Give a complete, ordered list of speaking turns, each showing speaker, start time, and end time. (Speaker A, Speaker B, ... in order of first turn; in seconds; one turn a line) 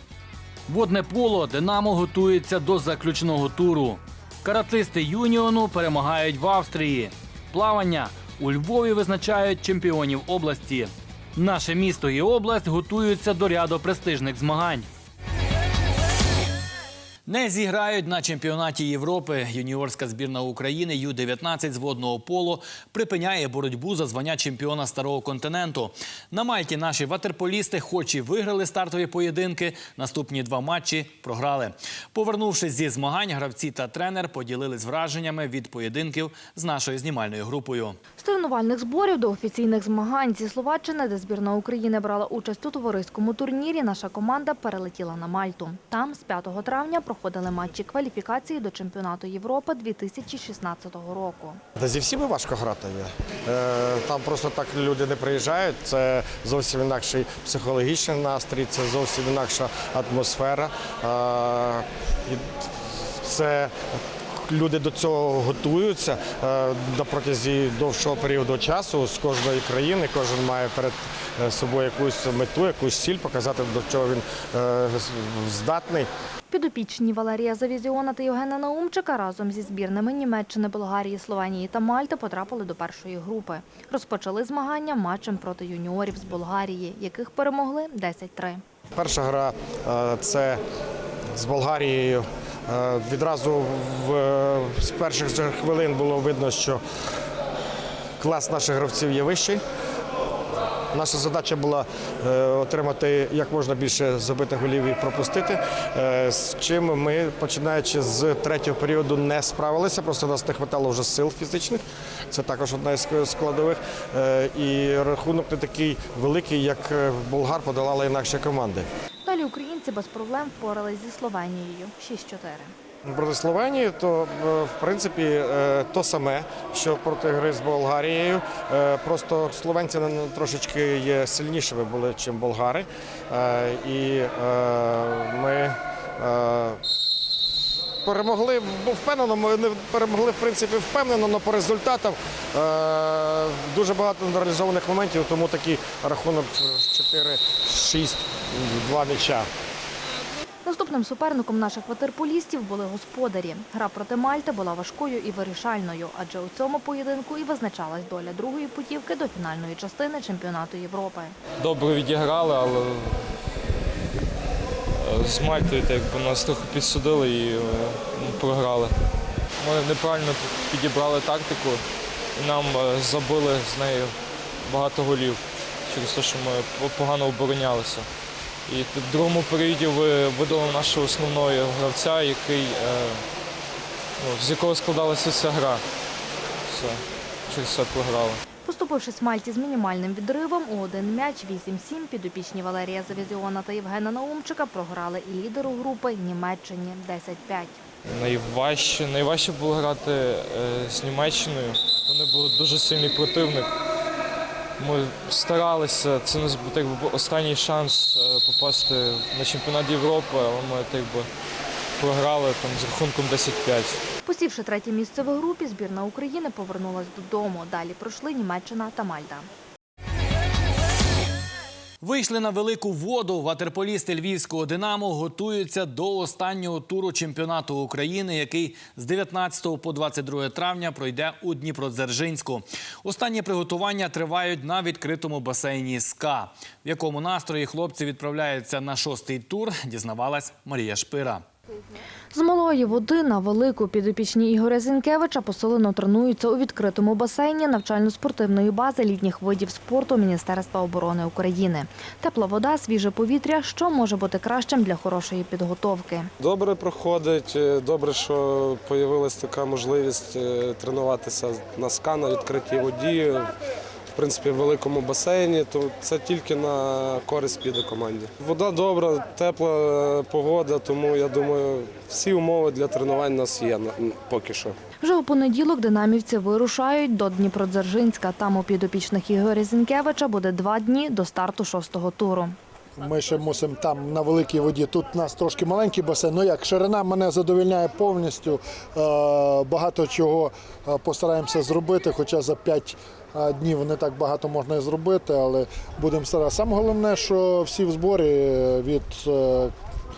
Speaker A: 0.7-14.9
Speaker A: 17.3-38.0
Speaker B: 38.2-51.6
Speaker C: 51.8-62.5
Speaker C: 63.2-76.1
Speaker B: 76.5-88.6
Speaker C: 88.9-90.6
Speaker C: 91.3-96.8
Speaker C: 98.2-99.6
Speaker C: 100.9-118.9
Speaker B: 119.2-122.7
Speaker C: 123.0-136.8
Speaker C: 138.0-149.5
Speaker B: 150.7-161.4
Speaker D: 161.6-163.2
Speaker D: 165.0-169.0
Speaker D: 169.6-171.8
Speaker D: 172.4-178.1
Speaker D: 178.7-183.2
Speaker D: 184.2-185.8
Speaker D: 186.7-188.4
Speaker B: 188.7-197.8
Speaker D: 198.1-203.7
Speaker D: 204.8-211.3
Speaker D: 212.0-214.0
Speaker B: 214.3-219.5
Speaker A: 222.0-241.4
Speaker B: 242.3-256.3
Speaker E: 256.4-263.5
Speaker E: 264.1-274.8
Speaker B: 275.0-282.6
Speaker F: 283.0-299.7